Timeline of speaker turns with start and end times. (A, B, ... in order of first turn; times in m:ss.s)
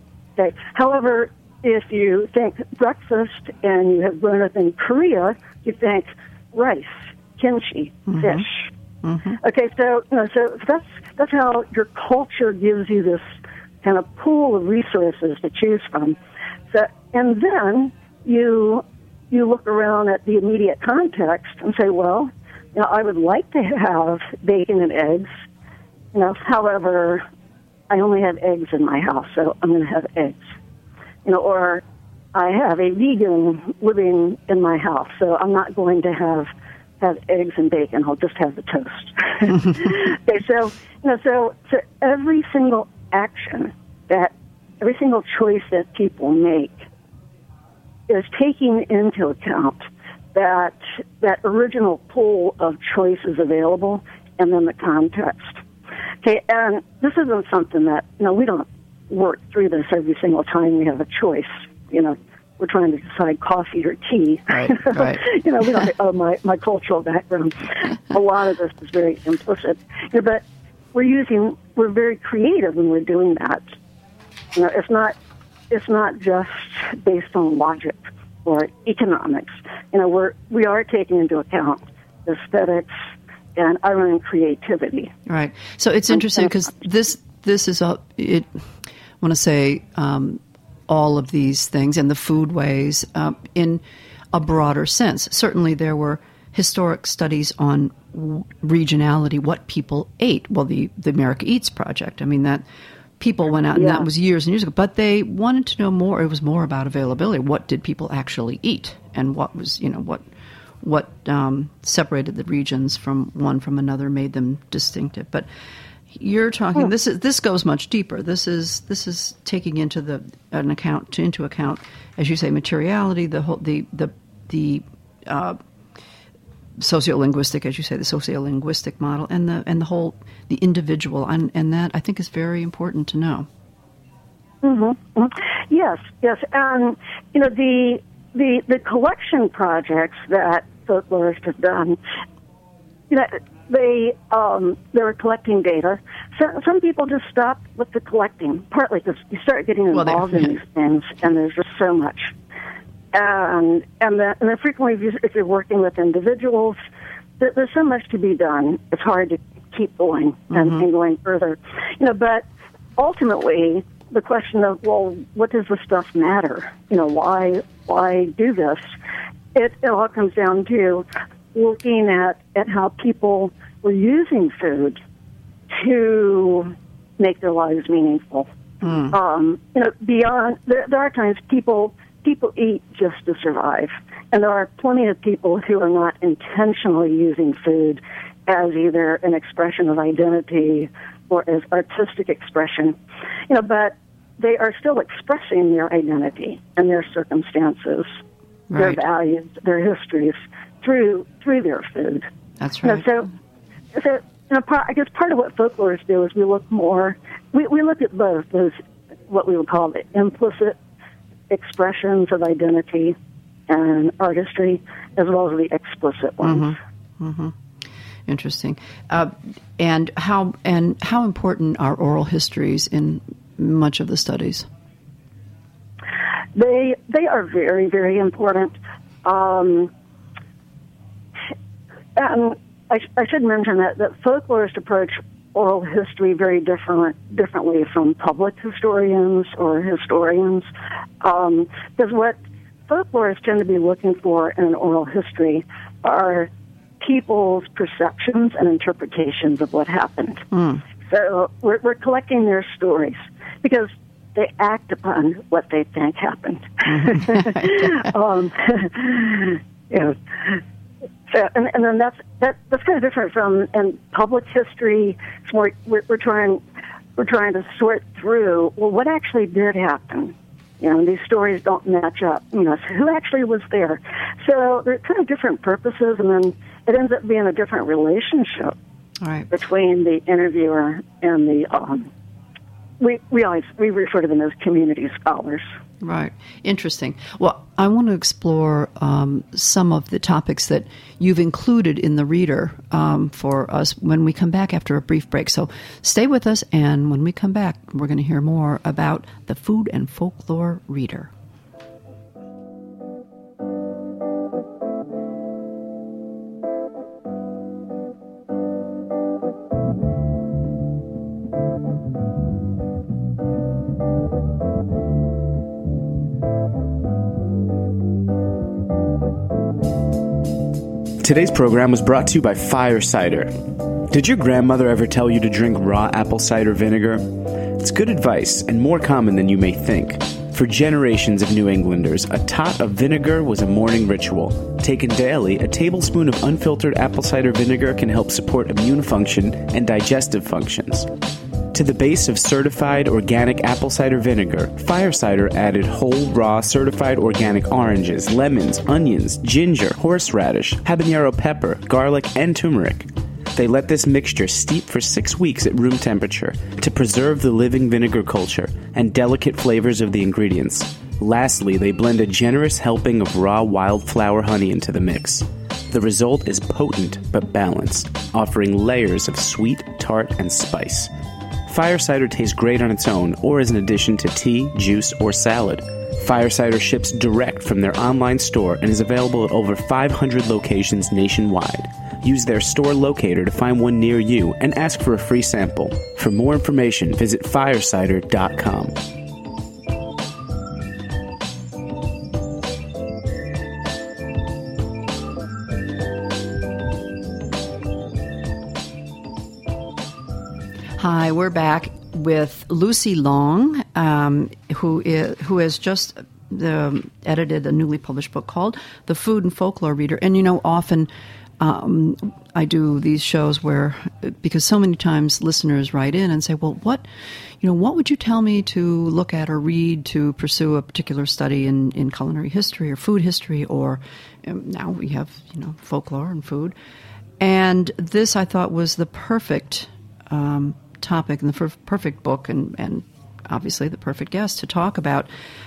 0:00.4-0:08.7 A
0:08.1-0:08.4 B
0:09.0-0:09.4 B
0:09.4-0:16.2 A
0:16.7-0:25.3 A
0:26.1-0:27.2 A
0:27.9-0:30.4 A
0:31.2-0:31.8 A
0:32.3-0:46.9 A
0:48.1-0:55.6 A
0:56.2-1:13.6 A
1:04.5-1:05.2 B
1:14.5-1:15.1 A
1:15.7-1:25.1 A
1:25.2-1:28.5 B
1:29.2-1:33.8 B
1:34.3-1:42.6 B
1:43.2-1:50.2 B
1:43.7-1:44.0 A
1:50.8-1:55.5 B
1:56.1-2:05.6 B
2:06.8-2:13.5 B
2:14.6-2:22.0 A
2:23.1-2:32.3 A
2:29.9-2:30.5 B
2:33.1-2:36.8 A
2:37.4-2:42.4 A
2:40.5-2:40.8 B
2:43.0-2:48.9 A
2:49.5-2:55.0 A
2:55.7-2:58.5 A
2:58.8-2:59.1 B
2:59.1-3:13.0 A
3:13.5-3:18.2 A
3:18.7-3:19.0 B
3:18.8-3:22.3 A
3:22.6-3:23.1 B
3:22.8-3:23.3 A
3:23.9-3:28.8 A
3:29.3-3:30.8 A
3:31.5-3:33.2 A
3:33.7-3:36.8 A
3:36.4-3:37.5 B
3:38.3-3:44.7 B
3:46.5-3:49.9 A
3:52.2-4:00.7 A
4:01.2-4:02.4 A
4:02.9-4:10.5 A
4:10.5-4:10.8 B
4:11.0-4:20.6 A
4:16.8-4:18.1 B
4:21.3-4:26.6 A
4:27.2-4:38.7 A
4:39.2-4:39.5 B
4:39.5-4:42.1 A
4:43.0-4:45.7 A
4:46.0-5:01.3 B
5:21.2-5:41.1 C
5:41.7-6:11.1 C
6:11.7-6:29.0 C
6:41.0-6:51.1 B
6:51.6-6:57.0 B
6:57.6-7:06.7 B
7:07.4-7:15.3 B